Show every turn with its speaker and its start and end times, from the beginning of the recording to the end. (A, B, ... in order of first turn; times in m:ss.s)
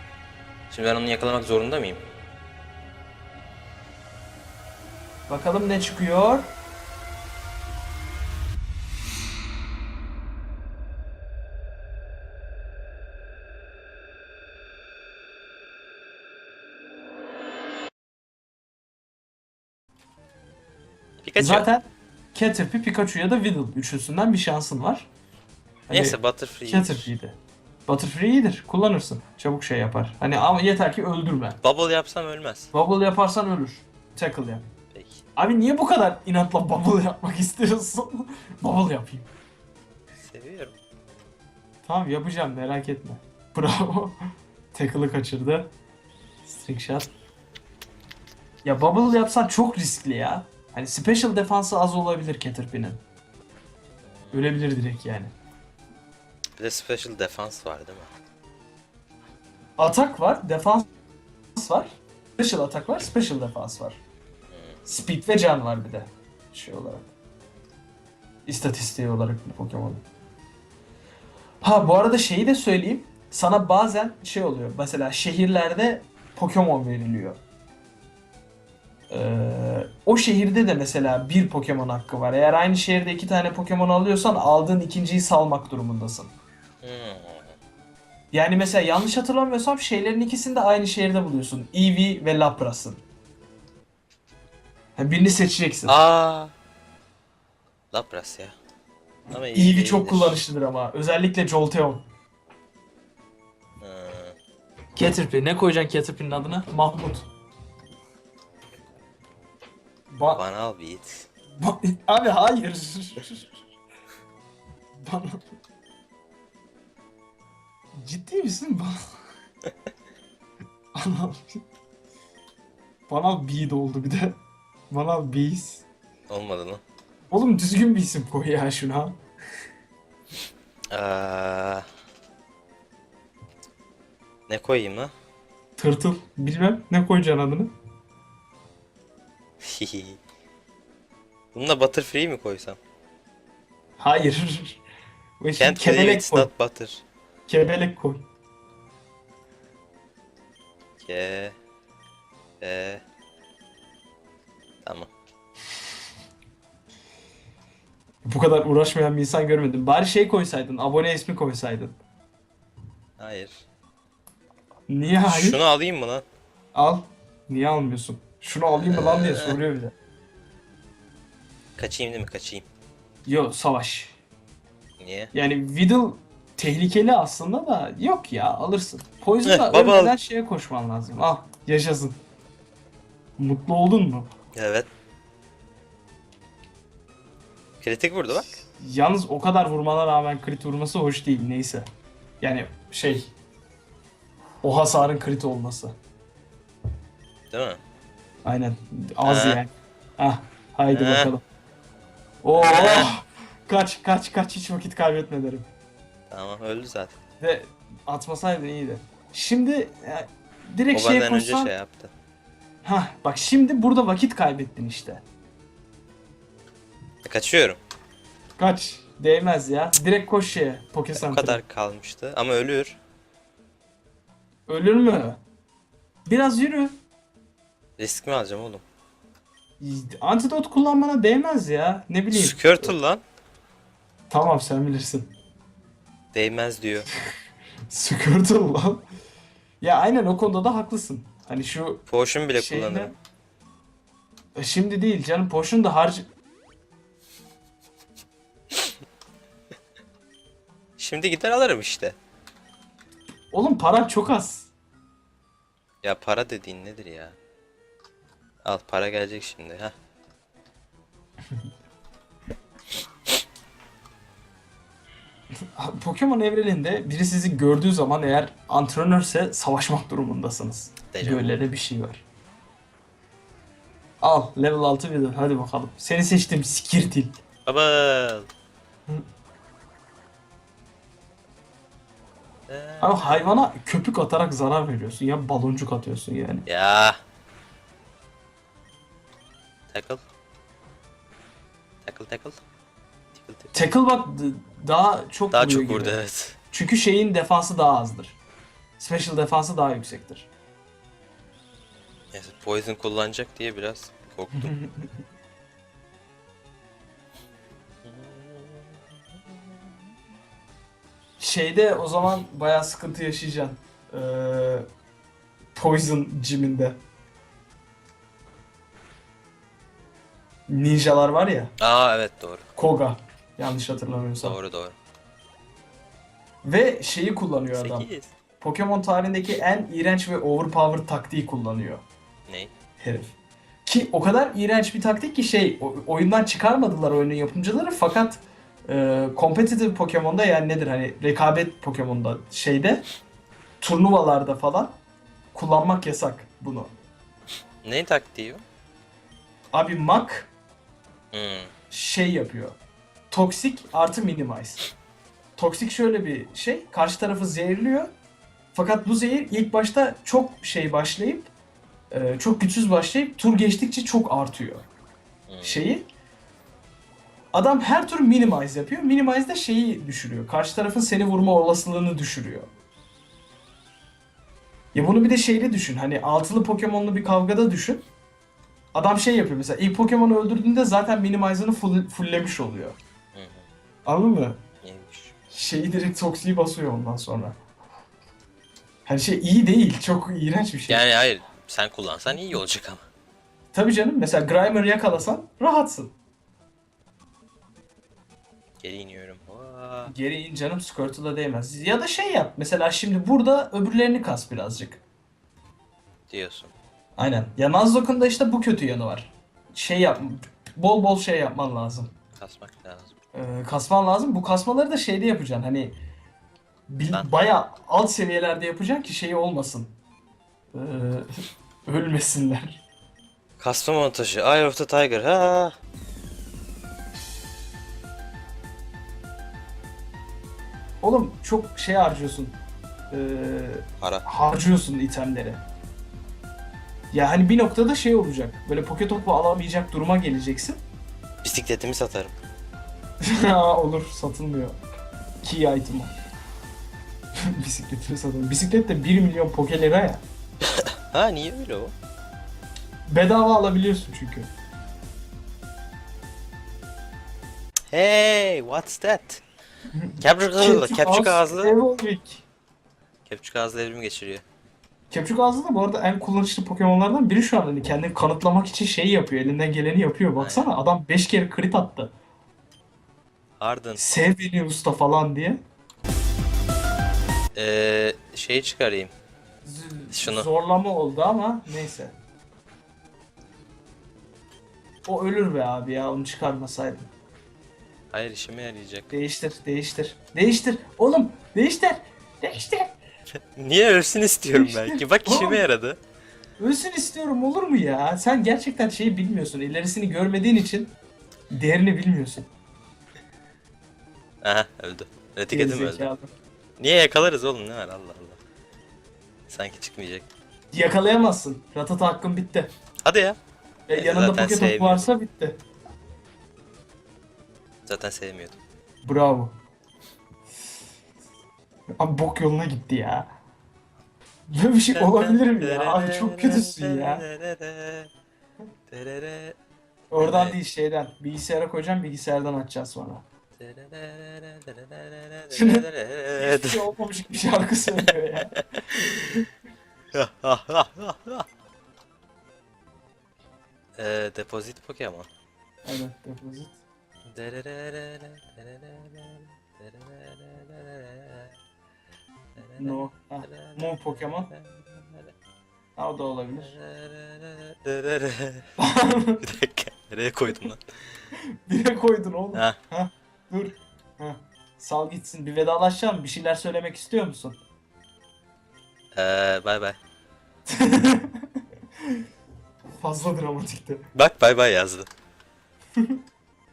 0:00.7-0:02.0 A
0:05.3-0:06.5 B
0:21.2-0:21.7 A
0:21.4-0:25.1 B
0:25.9-0:31.6 B
0:25.9-0:27.1 A
0:31.6-0:32.7 A
0:32.7-0:34.7 B
0:34.9-0:35.2 A
0:35.4-0:39.3 B
0:40.2-0:40.7 A
0:41.8-0:44.2 B
0:44.7-0:45.7 B
0:46.4-0:47.1 B
0:48.6-0:53.0 B
0:54.1-0:54.6 A
0:54.3-0:55.3 B
0:56.6-0:58.1 A
0:59.8-1:00.8 B
1:01.6-1:04.0 B
1:04.5-1:04.8 A
1:04.8-1:07.1 B
1:08.4-1:10.0 B
1:11.6-1:17.4 B
1:19.1-1:26.3 B
1:26.8-1:27.5 A
1:28.3-1:33.0 B
1:35.0-1:36.0 B
1:35.9-1:36.5 A
1:37.9-1:38.5 A
1:39.3-1:40.4 A
1:39.5-1:42.0 B
1:43.8-1:44.4 A
1:45.0-1:47.3 B
1:50.1-1:50.4 B
1:50.3-1:51.3 A
1:51.6-1:53.5 B
1:55.0-1:55.4 B
1:57.9-1:59.1 B
2:00.9-2:01.6 B
2:03.1-2:04.4 B
2:04.9-2:05.8 B
2:06.3-2:06.8 A
2:07.3-2:09.2 B
2:10.9-2:11.8 A
2:14.5-2:15.1 A
2:15.8-2:17.7 B
2:19.6-2:20.2 A
2:21.5-2:22.8 A
2:24.0-2:24.8 B
2:25.4-2:26.5 B
2:25.6-2:27.0 A
2:27.5-2:28.2 B
2:31.0-2:31.5 A
2:32.6-2:33.0 A
2:34.8-2:35.1 A
2:38.2-2:42.0 B
2:43.2-2:43.6 A
2:44.9-2:45.6 B
2:45.3-2:46.2 A
2:46.7-2:49.9 B
2:48.8-2:49.6 A
2:51.8-2:52.6 A
2:53.2-2:54.2 B
2:55.0-2:55.3 A
2:55.3-3:02.2 B
2:59.4-3:00.1 A
3:03.4-3:04.3 B
3:04.5-3:04.9 A
3:07.8-3:08.5 A
3:08.8-3:11.9 B
3:12.4-3:13.3 B
3:14.6-3:15.9 B
3:17.5-3:17.8 A
3:18.4-3:21.4 B
3:19.2-3:19.6 A
3:20.9-3:21.3 A
3:22.4-3:25.7 B
3:22.5-3:23.1 A
3:26.3-3:27.2 A
3:27.4-3:31.7 B
3:30.9-3:32.1 A
3:32.8-3:35.2 B
3:37.2-3:37.8 A
3:38.6-3:41.6 B
3:41.1-3:43.0 A
3:44.7-3:45.4 B
3:46.2-3:47.0 B
3:48.0-3:48.8 A
3:49.8-3:52.9 B
3:52.3-3:53.2 A
3:54.3-3:55.3 B
3:56.3-3:57.1 A
3:57.9-3:59.0 B
3:59.8-4:03.1 B
4:02.1-4:03.1 A
4:04.6-4:06.2 B
4:11.0-4:12.2 A
4:13.5-4:14.7 B
4:16.0-4:17.4 A
4:18.6-4:19.9 A
4:25.8-4:32.2 B
4:31.1-4:31.5 A
4:34.2-4:37.4 B
4:37.6-4:38.5 A
4:42.7-4:43.5 A
4:43.0-4:46.6 B
4:46.7-4:47.2 A
4:49.9-4:50.2 A
4:52.0-4:52.6 A
4:53.3-4:53.8 A
4:53.7-4:56.2 B
4:55.5-4:56.6 A
4:56.7-4:58.4 B
4:59.0-5:00.5 B
5:02.3-5:04.7 A
5:04.6-5:05.1 B
5:08.0-5:09.8 A
5:11.4-5:14.8 B
5:15.7-5:17.0 B
5:20.7-5:21.7 B
5:21.8-5:22.6 A
5:22.8-5:24.6 B
5:24.4-5:25.0 A
5:26.6-5:32.0 B
5:27.7-5:28.3 A
5:33.0-5:33.3 B
5:33.8-5:43.0 B
5:43.8-5:45.0 B
5:45.5-5:46.9 B
5:47.8-5:48.6 A
5:49.7-5:50.5 B
5:51.3-5:51.7 A
5:51.9-5:52.8 B
5:53.3-5:54.8 B
5:55.6-5:58.1 B
5:58.7-6:01.5 B
6:02.1-6:04.8 B
6:05.5-6:05.9 A
6:05.6-6:06.0 B
6:07.5-6:12.7 B
6:14.9-6:18.0 B
6:18.9-6:23.0 B
6:23.3-6:23.6 A
6:24.0-6:24.6 B
6:24.8-6:25.3 A
6:25.5-6:27.6 B
6:29.0-6:31.1 B
6:30.9-6:33.0 A
6:33.7-6:36.1 B
6:38.8-6:40.1 A
6:40.0-6:45.0 B
6:46.3-6:46.7 A
6:47.2-6:52.1 B
6:52.4-6:53.1 A
6:53.3-6:56.0 B
6:56.9-6:59.9 B
7:00.7-7:02.8 B
7:03.6-7:05.7 A
7:11.0-7:12.6 B
7:13.1-7:15.6 B
7:14.0-7:14.2 A
7:17.1-7:20.8 B
7:21.4-7:22.3 A
7:23.2-7:24.8 B
7:25.4-7:26.1 B
7:27.5-7:30.2 B
7:31.1-7:31.9 A
7:33.0-7:34.5 B
7:37.9-7:39.4 A
7:39.9-7:42.4 B
7:40.2-7:41.7 A
7:43.2-7:44.4 A
7:45.1-7:52.1 B
7:50.4-7:50.7 A
7:53.6-7:54.0 A
7:54.0-7:55.6 B
7:57.5-7:59.1 A
7:59.6-8:02.1 B
8:00.1-8:00.5 A
8:05.0-8:07.1 B
8:08.1-8:09.1 A
8:09.1-8:12.9 B
8:13.6-8:16.0 A
8:14.5-8:15.6 B
8:16.6-8:20.9 B
8:21.5-8:22.5 B
8:24.4-8:26.1 A
8:25.5-8:26.3 B
8:26.8-8:28.4 A
8:29.5-8:30.3 A
8:30.7-8:32.7 B
8:33.0-8:33.4 A
8:33.9-8:35.6 B
8:33.9-8:35.1 A
8:37.8-8:38.6 A
8:39.0-8:39.5 B
8:42.0-8:43.3 B
8:44.5-8:47.2 B
8:44.9-8:48.1 A
8:48.9-8:49.6 A
8:50.1-8:53.2 B
8:50.2-8:50.6 A
8:53.6-8:56.9 A
8:55.5-8:58.5 B
8:58.0-8:59.0 A
9:00.1-9:01.4 A
9:04.0-9:05.3 A
9:05.8-9:06.8 B
9:07.3-9:11.5 A
9:12.6-9:15.3 A
9:12.8-9:14.5 B
9:16.0-9:16.8 B
9:16.6-9:18.6 A
9:18.8-9:19.4 B
9:19.4-9:20.8 A
9:21.7-9:27.6 B
9:29.1-9:30.0 A
9:30.7-9:31.5 B
9:33.0-9:34.0 B
9:34.1-9:35.1 A